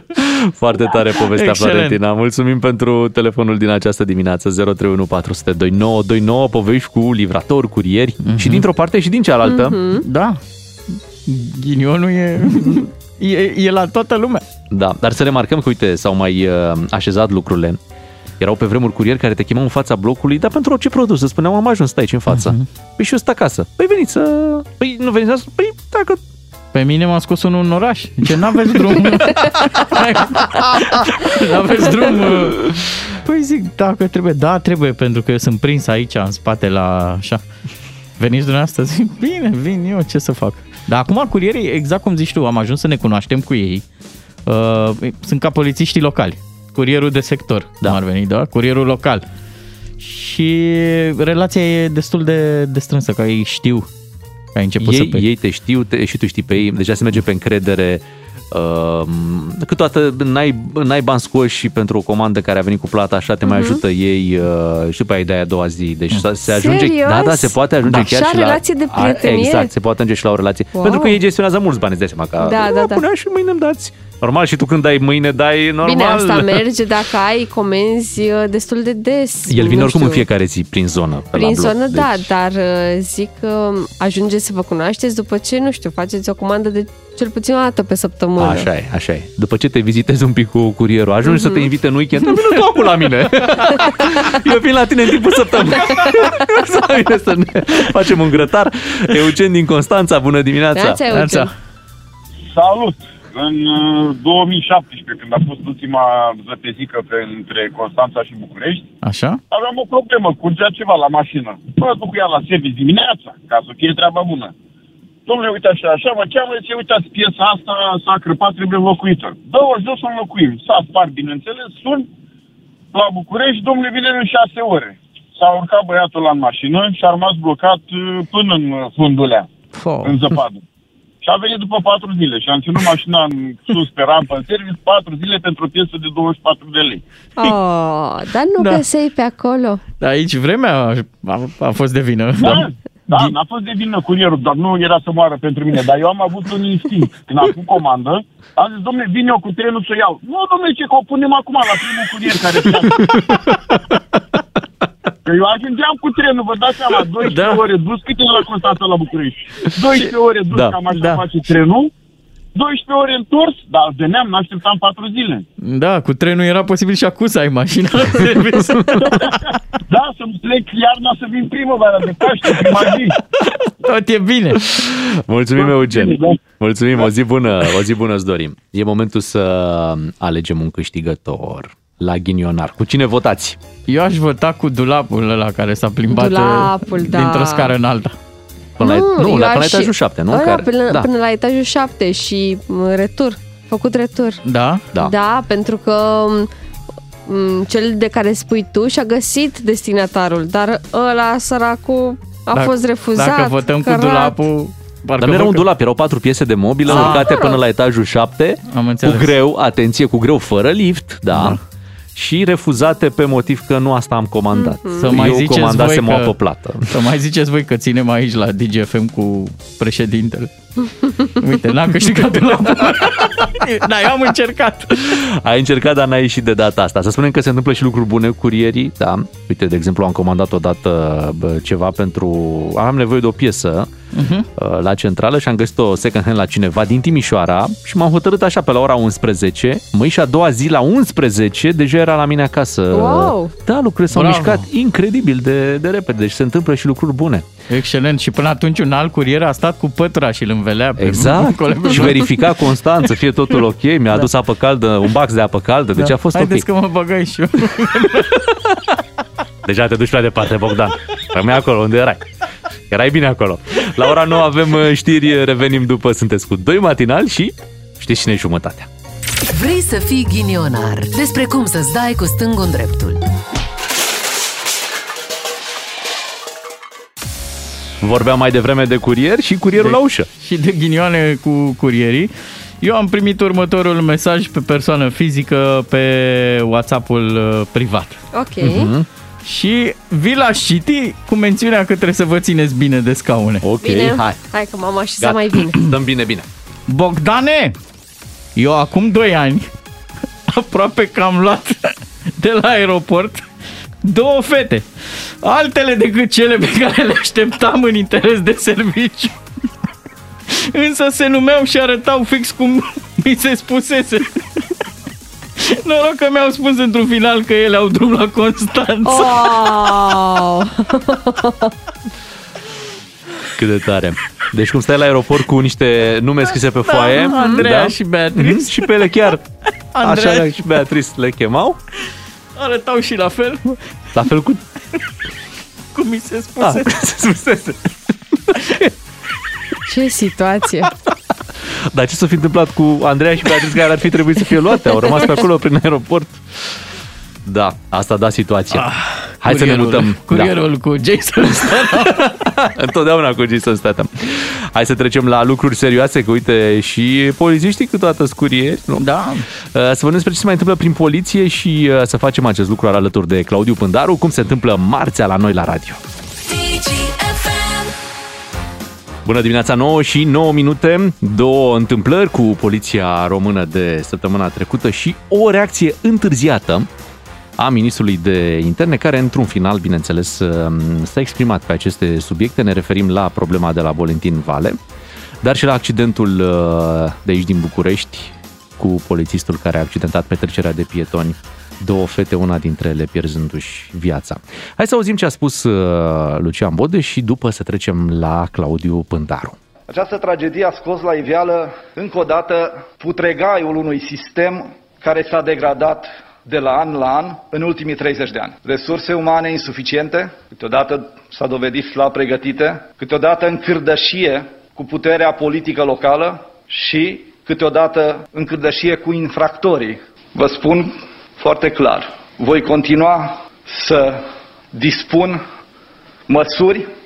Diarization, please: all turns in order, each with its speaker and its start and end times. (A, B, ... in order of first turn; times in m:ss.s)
0:00.2-0:09.8 A
0:01.3-0:02.0 B
0:08.2-0:08.7 B
0:09.4-0:10.0 C
0:10.0-0:10.4 B
0:10.9-0:14.4 B
0:14.7-0:17.8 A
0:18.4-0:26.2 A
0:22.3-0:22.6 B
0:26.7-0:37.4 B
0:38.2-0:43.8 B
0:44.5-0:49.2 B
0:50.0-0:53.9 B
0:54.6-0:55.3 B
0:54.8-1:16.7 A
1:03.5-1:03.8 C
1:06.5-1:09.7 C
1:10.7-1:11.2 C
1:12.4-1:13.0 C
1:15.8-1:20.2 C
1:19.5-1:22.3 A
1:21.3-1:28.7 C
1:28.4-1:41.0 A
1:31.3-1:31.7 C
1:40.8-1:41.5 C
1:41.1-1:41.5 B
1:42.4-1:48.9 D
1:49.0-1:49.4 B
1:49.5-1:54.5 D
1:55.3-2:02.1 D
2:02.9-2:09.5 D
2:09.7-2:10.3 B
2:10.0-2:10.6 D
2:11.2-2:17.0 D
2:17.4-2:19.8 C
2:18.6-2:18.8 B
2:20.0-2:22.6 B
2:22.4-2:32.9 D
2:33.0-2:33.5 A
2:35.3-2:41.9 D
2:37.2-2:37.6 B
2:40.9-2:41.3 B
2:42.6-2:45.4 D
2:45.6-2:49.2 B
2:48.6-2:49.0 A
2:49.9-2:53.2 D
2:53.8-2:54.7 B
2:54.7-3:03.6 A
2:55.6-2:56.2 D
3:03.9-3:08.2 B
3:06.1-3:07.7 C
3:08.8-3:11.1 A
3:08.8-3:14.4 C
3:14.4-3:14.8 B
3:15.0-3:16.5 C
3:17.3-3:24.4 C
3:22.5-3:25.7 B
3:25.2-3:31.6 A
3:26.9-3:27.3 B
3:26.9-3:27.6 C
3:28.7-3:29.3 B
3:31.3-3:31.6 B
3:32.2-3:37.0 A
3:34.6-3:35.1 C
3:35.0-3:36.3 B
3:36.9-3:40.5 B
3:41.4-3:45.2 B
3:45.0-3:53.9 A
3:54.1-3:54.5 B
3:54.6-4:07.5 A
4:02.9-4:03.5 C
4:04.1-4:04.7 B
4:07.7-4:12.5 B
4:11.0-4:16.6 A
4:16.0-4:18.4 B
4:19.6-4:22.2 A
4:22.9-4:28.9 A
4:29.5-4:33.2 E
4:38.0-4:40.3 A
4:39.8-4:48.2 B
4:48.3-4:48.9 C
4:48.6-4:49.1 A
4:49.4-4:53.6 B
4:53.6-4:54.4 A
4:53.8-4:55.8 C
4:55.2-4:56.5 A
4:56.9-4:57.8 B
4:58.6-4:59.7 B
5:00.5-5:03.4 B
5:04.0-5:04.9 B
5:05.4-5:09.4 B
5:10.5-5:14.6 B
5:15.6-5:19.7 B
5:19.0-5:21.7 C
5:23.6-5:29.4 A
5:26.8-5:28.8 B
5:27.3-5:27.6 C
5:29.9-5:30.7 B
5:30.0-5:31.8 A
5:32.6-5:33.8 B
5:34.2-5:34.6 A
5:35.9-5:37.1 B
5:36.6-5:38.1 A
5:39.9-5:40.9 C
5:41.9-5:46.4 A
5:47.4-5:48.9 A
5:48.7-5:52.3 B
5:49.4-5:50.5 A
5:51.6-5:59.1 A
5:59.0-5:59.5 B
5:59.7-6:06.0 A
6:09.2-6:16.9 A
6:17.6-6:24.8 A
6:25.4-6:39.6 A
6:39.9-7:05.4 F
7:06.3-7:06.9 F